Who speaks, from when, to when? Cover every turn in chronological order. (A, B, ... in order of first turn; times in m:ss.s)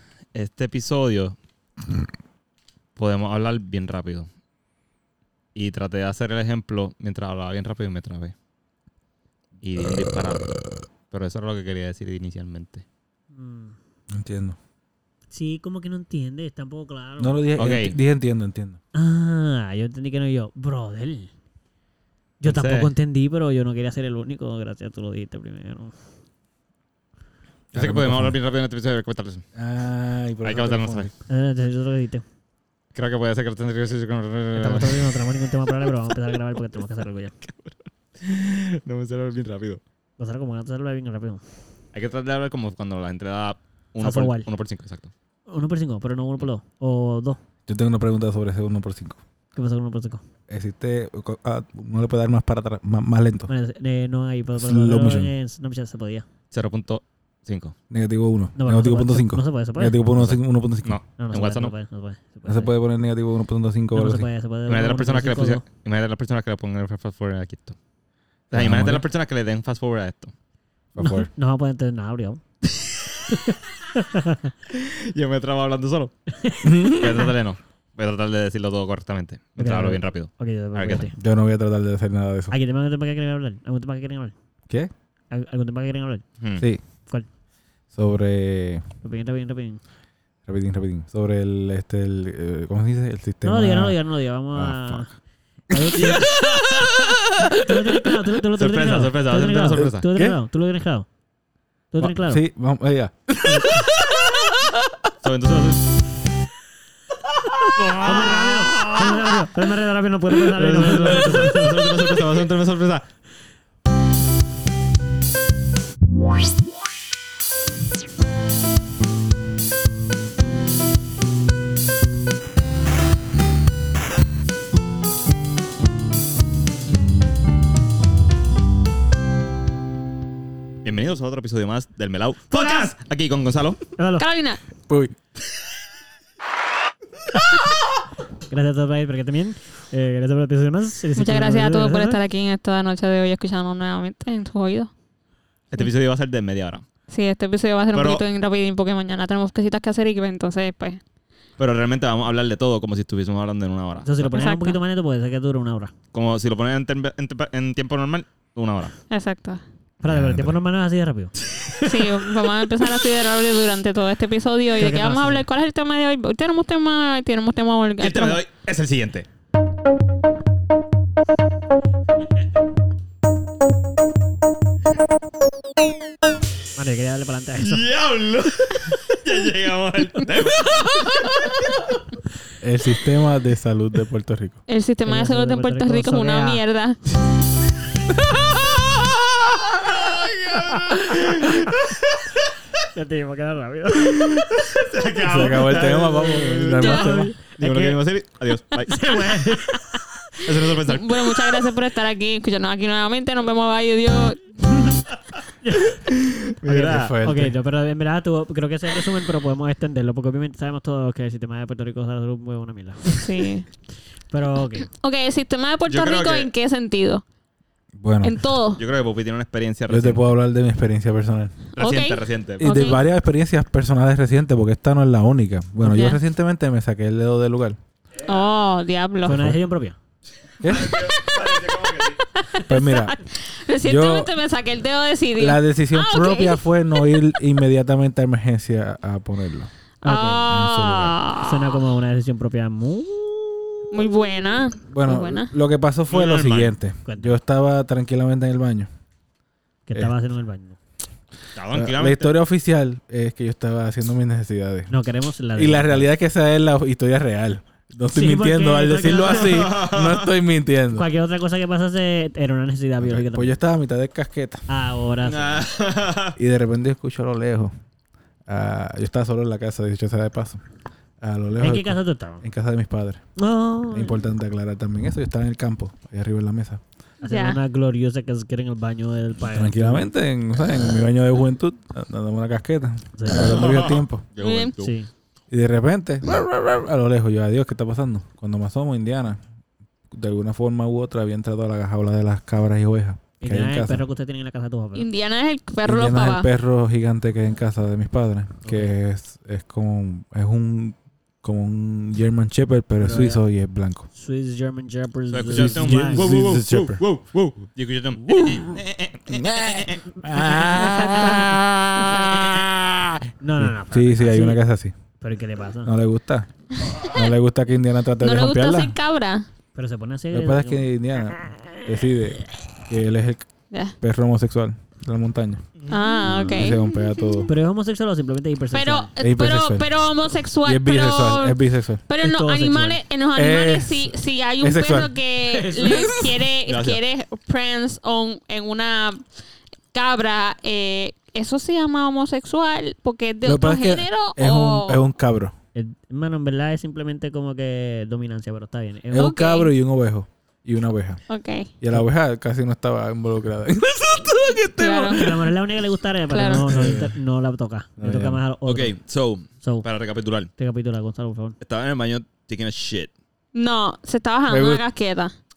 0:00.3-0:01.4 A
0:03.0-0:04.3 A
0:05.5-0:08.3 A
0:09.6-0:10.6 A
0:11.1-0:12.8 A
0:13.3-0:13.8 B
0:14.1-0:14.6 C
0:15.3-0:17.4 B
0:17.2-0:18.8 C
0:17.6-0:18.0 A
0:18.9-0:21.3 B
0:22.4-0:25.9 B
0:22.4-0:22.9 A
0:27.7-0:28.4 C
0:27.7-0:29.4 A
0:29.5-0:31.1 C
0:30.4-0:31.1 A
0:31.3-0:32.2 B
0:32.9-0:35.2 A
0:34.6-0:37.3 B
0:37.4-0:39.8 A
0:40.2-0:41.4 B
0:41.9-0:45.1 A
0:44.0-0:44.5 B
0:45.5-0:47.4 B
0:47.7-0:49.2 C
0:49.5-0:50.2 B
0:50.5-0:53.5 C
0:53.5-0:56.2 B
0:54.6-0:55.3 C
0:56.5-0:57.7 A
0:57.9-1:01.0 C
0:58.6-1:00.0 B
1:00.1-1:01.7 A
1:01.2-1:02.7 B
1:02.5-1:04.3 C
1:03.9-1:05.6 B
1:04.7-1:07.8 A
1:08.5-1:09.0 C
1:08.5-1:10.3 A
1:10.9-1:11.3 C
1:11.0-1:12.4 B
1:13.3-1:14.5 B
1:14.7-1:16.1 A
1:16.4-1:17.3 B
1:16.6-1:17.3 C
1:16.8-1:21.1 A
1:19.6-1:21.1 B
1:21.2-1:22.5 C
1:22.5-1:24.3 B
1:25.3-1:26.2 B
1:26.4-1:26.6 A
1:27.9-1:28.8 C
1:29.0-1:29.8 B
1:30.4-1:34.0 C
1:33.4-1:35.1 B
1:34.5-1:35.0 C
1:35.7-1:36.3 B
1:35.7-1:38.2 C
1:36.0-1:37.1 A
1:37.4-1:41.0 B
1:38.5-1:40.0 A
1:39.7-1:40.4 C
1:41.9-1:42.4 B
1:42.0-1:45.0 C
1:43.4-1:43.8 B
1:45.2-1:45.8 A
1:47.8-1:48.1 A
1:48.0-1:52.2 B
1:50.5-1:51.5 C
1:50.9-1:53.1 A
2:10.8-2:13.8 A
2:12.5-2:12.9 B
2:14.0-2:14.2 B
2:14.2-2:14.6 D
2:14.9-2:15.2 C
2:18.5-2:22.2 B
2:21.2-2:24.9 D
2:25.7-2:26.8 A
2:27.1-2:31.0 D
2:27.9-2:28.2 A
2:31.6-2:34.3 A
2:34.0-2:35.9 B
2:34.3-2:34.8 D
2:36.1-2:38.9 A
2:39.1-2:39.6 D
2:40.0-2:42.5 B
2:40.1-2:40.6 C
2:41.8-2:48.4 D
2:44.7-2:45.4 B
2:48.0-2:49.2 A
2:56.8-2:57.9 B
2:57.6-3:01.5 A
3:02.6-3:04.6 C
3:04.7-3:07.0 D
3:05.0-3:06.6 B
3:09.9-3:12.2 A
3:12.9-3:14.6 B
3:14.1-3:17.0 A
3:15.2-3:17.3 C
3:16.8-3:18.0 B
3:17.6-3:19.4 A
3:18.9-3:20.0 B
3:20.4-3:21.6 A
3:20.8-3:24.8 D
3:25.6-3:26.0 B
3:26.0-3:27.1 A
3:26.6-3:27.5 C
3:27.2-3:33.2 B
3:33.2-3:33.6 D
3:34.3-3:34.9 B
3:35.0-3:37.2 D
3:35.9-3:36.5 A
3:38.0-3:38.4 C
3:38.2-3:38.8 D
3:38.8-3:40.3 A
3:39.9-3:41.6 C
3:41.8-3:43.0 A
3:41.8-3:43.0 D
3:42.6-3:47.8 C
3:45.8-3:46.2 D
3:48.2-3:49.4 D
3:49.2-3:50.0 B
3:50.6-3:51.0 C
3:50.7-3:52.2 A
3:52.3-3:57.3 D
3:52.7-3:53.1 C
3:53.8-3:54.3 C
3:55.4-3:59.7 C
4:00.0-4:00.4 B
4:00.0-4:01.8 D
4:00.4-4:01.2 C
4:01.4-4:04.0 B
4:03.9-4:05.5 D
4:04.9-4:08.9 C
4:06.1-4:06.7 A
4:07.0-4:07.4 B
4:09.9-4:10.8 B
4:11.5-4:12.4 A
4:11.7-4:14.9 C
4:14.9-4:16.1 B
4:15.6-4:21.0 C
4:18.1-4:19.8 B
4:19.2-4:20.2 A
4:20.9-4:23.6 B
4:23.0-4:24.6 C
4:24.7-4:25.7 B
4:25.2-4:26.4 A
4:26.4-4:27.7 C
4:28.5-4:30.6 C
4:31.2-4:33.2 C
4:31.6-4:32.4 B
4:33.4-4:34.2 B
4:33.9-4:36.8 C
4:37.2-4:40.1 B
4:37.2-4:37.6 D
4:39.4-4:44.3 C
4:43.1-4:43.5 B
4:43.4-4:45.0 A
4:44.4-4:44.7 D
4:44.8-4:45.1 B
4:45.5-4:49.4 C
4:50.1-4:54.0 C
4:53.4-4:55.1 B
4:54.9-4:56.5 D
4:55.8-5:04.1 C
4:58.6-4:58.9 B
5:03.0-5:03.4 B
5:04.1-5:06.3 B
5:05.3-5:10.0 A
5:05.5-5:07.0 C
5:08.2-5:14.9 C
5:10.7-5:12.6 D
5:13.4-5:14.6 B
5:15.2-5:15.9 B
5:15.8-5:16.5 C
5:16.8-5:17.3 D
5:17.0-5:18.9 C
5:18.2-5:19.5 D
5:19.7-5:21.9 B
5:20.3-5:23.5 C
5:24.0-5:25.7 C
5:25.8-5:26.6 A
5:25.9-5:27.5 D
5:26.2-5:27.5 C
5:27.5-5:29.1 B
5:28.7-5:31.6 D
5:29.2-5:29.9 C
5:30.6-5:32.0 C
5:32.1-5:39.2 D
5:32.2-5:33.0 B
5:33.3-5:35.1 C
5:35.4-5:36.4 B
5:36.7-5:37.0 A
5:39.9-5:45.1 D
5:43.4-5:45.5 C
5:45.7-5:49.3 B
5:49.1-5:51.2 C
5:49.1-5:49.7 D
5:51.3-5:51.7 D
5:51.8-5:55.5 C
5:54.8-5:55.2 D
5:55.1-5:58.9 B
5:56.3-5:57.0 D
5:56.5-5:57.1 C
5:58.0-5:58.4 C
5:58.6-6:00.5 A
6:00.6-6:01.6 B
6:01.6-6:03.1 A
6:03.5-6:05.3 D
6:04.5-6:04.8 C